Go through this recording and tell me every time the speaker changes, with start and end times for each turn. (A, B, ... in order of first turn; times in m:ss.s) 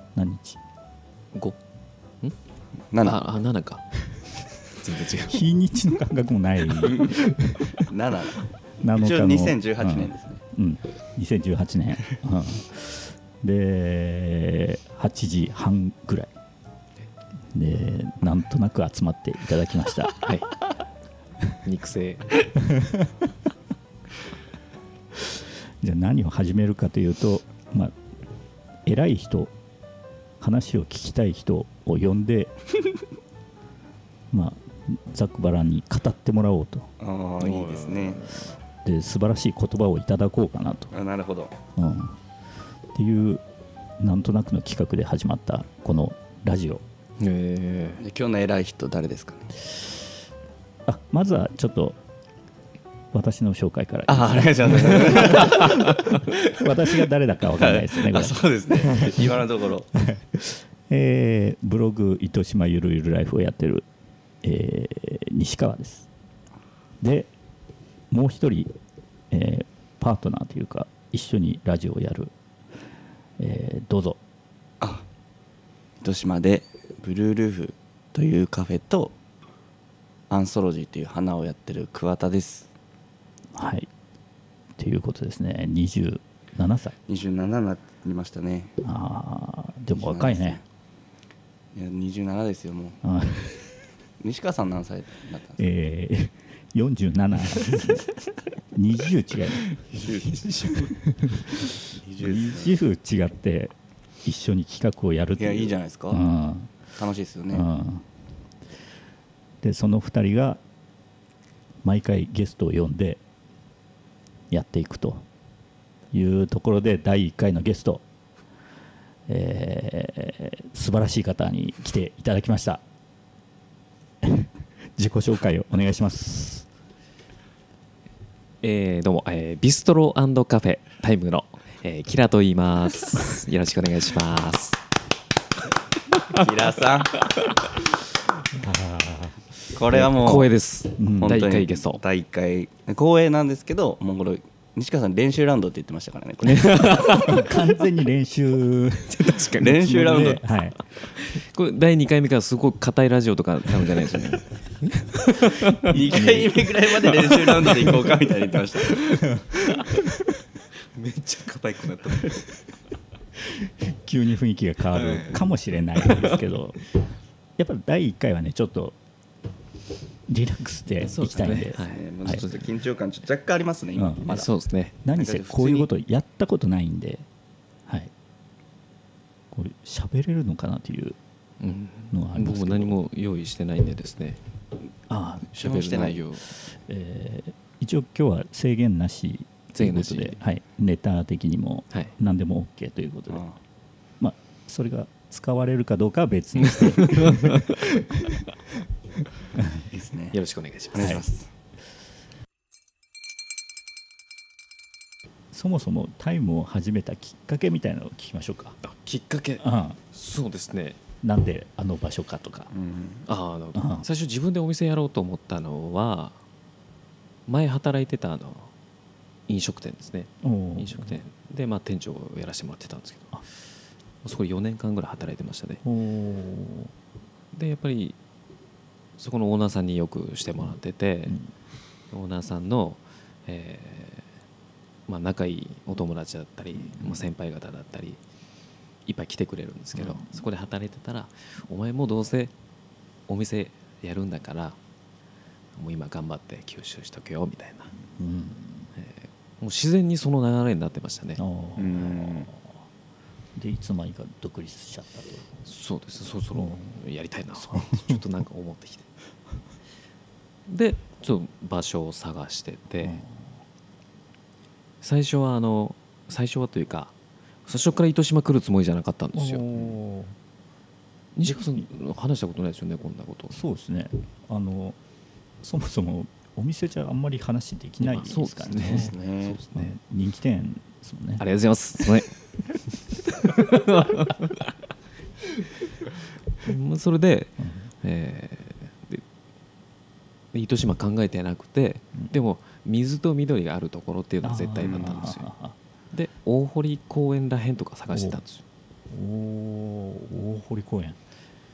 0:00.1-0:00.6 A
0:02.9-0:03.2 B
0:03.0-0:03.8 C
0:04.7-0:05.5 C
0:05.3-0:07.8 A
0:06.8-0:07.2 B
0:07.7-0:10.4 B
0:08.8-0:16.3 A
0:17.5-0:20.2 A
0:20.2-0:20.5 C
0:21.6-0:22.4 C
0:22.5-0:23.1 A
0:25.2-0:28.0 A
0:28.8-0:29.5 A
0:30.4-0:32.5 A
0:34.3-0:36.9 A
0:37.0-0:38.2 B
0:37.4-0:38.5 C
0:38.8-0:40.9 A
0:40.9-0:41.5 B
0:41.8-0:42.2 A
0:42.9-0:43.4 A
0:44.0-0:46.8 A
0:47.2-0:48.0 C
0:48.0-0:49.5 B
0:50.8-0:52.0 A
0:53.1-0:59.4 A
0:54.1-0:56.6 B
0:57.6-0:59.9 B
0:59.9-1:03.9 A
1:04.4-1:06.1 A
1:07.0-1:07.3 A
1:08.1-1:08.7 A
1:09.3-1:12.3 A
1:13.4-1:14.2 A
1:16.0-1:19.1 B
1:20.3-1:22.7 B
1:23.5-1:23.9 A
1:24.8-1:26.9 A
1:27.1-1:28.7 B
1:28.8-1:30.6 A
1:29.9-1:30.6 B
1:31.7-1:33.0 B
1:33.0-1:33.7 A
1:34.2-1:35.6 B
1:35.6-1:38.1 A
1:38.7-1:39.7 A
1:39.9-1:40.7 B
1:40.0-1:40.9 C
1:40.8-1:46.8 A
1:41.9-1:42.8 B
1:45.4-1:46.2 B
1:47.0-1:47.7 B
1:47.5-1:48.0 A
1:49.6-1:50.6 A
1:51.8-1:53.2 A
1:54.5-1:55.2 A
1:56.1-1:58.0 A
1:59.3-2:02.8 A
2:04.2-2:06.7 A
2:08.6-2:14.8 C
2:16.3-2:17.2 B
2:18.5-2:20.1 A
2:19.7-2:20.5 B
2:19.9-2:22.0 C
2:21.0-2:21.4 A
2:21.2-2:27.0 B
2:26.4-2:27.7 C
2:27.0-2:30.8 A
2:29.1-2:30.3 C
2:29.6-2:30.4 B
2:31.0-2:36.2 C
2:35.9-2:39.0 B
2:35.9-2:36.7 A
2:37.0-2:38.1 C
2:39.0-2:40.1 A
2:40.9-2:42.4 C
2:43.5-2:46.8 A
2:45.0-2:45.3 C
2:47.6-2:49.0 A
2:50.3-2:52.4 A
2:51.0-2:52.7 C
2:51.8-2:54.5 B
2:54.0-2:54.3 A
2:54.2-2:55.0 C
2:55.0-2:57.3 A
2:55.1-2:55.9 B
2:57.8-2:58.1 A
2:59.5-3:01.2 A
3:01.6-3:04.4 C
3:02.1-3:03.0 A
3:05.1-3:05.5 A
3:05.5-3:06.4 C
3:05.6-3:06.2 B
3:06.6-3:13.4 A
3:09.8-3:10.4 C
3:13.3-3:13.5 B
3:14.2-3:18.4 A
3:16.6-3:17.6 C
3:19.5-3:19.9 A
3:19.9-3:20.4 B
3:20.3-3:21.2 C
3:20.9-3:21.5 B
3:21.0-3:21.2 A
3:25.5-3:28.8 A
3:28.8-3:31.0 C
3:29.6-3:30.0 A
3:31.2-3:32.7 A
3:32.7-3:33.2 B
3:33.2-3:36.4 C
3:33.7-3:34.1 A
3:37.5-3:38.7 C
3:39.5-3:43.4 C
3:40.4-3:41.2 A
3:44.2-3:45.8 C
3:45.8-3:46.9 A
3:47.5-3:48.2 C
3:49.2-3:51.4 C
3:52.1-3:54.3 C
3:55.1-3:58.2 C
3:56.8-3:57.2 A
3:59.0-4:02.5 C
3:59.9-4:00.4 A
4:03.3-4:04.8 C
4:05.8-4:07.9 C
4:08.2-4:08.9 A
4:08.9-4:11.4 C
4:11.4-4:12.8 A
4:11.8-4:12.5 B
4:13.5-4:15.6 A
4:15.6-4:19.1 C
4:16.5-4:17.0 A
4:17.5-4:18.2 A
4:20.7-4:23.2 C
4:23.0-4:23.6 A
4:25.0-4:27.1 C
4:27.6-4:29.9 C
4:29.3-4:30.4 A
4:31.4-4:33.6 C
4:31.4-4:31.8 A
4:33.5-4:35.0 A
4:35.6-4:39.1 A
4:38.0-4:40.0 C
4:38.8-4:39.6 B
4:39.7-4:41.4 A
4:41.4-4:42.3 C
4:43.1-4:44.7 C
4:46.6-4:49.2 C
4:47.6-4:47.9 A
4:50.5-4:55.5 C
4:54.4-4:55.8 A
4:54.8-4:55.1 B
4:56.1-4:58.6 C
4:58.1-4:58.4 A
4:59.1-5:01.2 A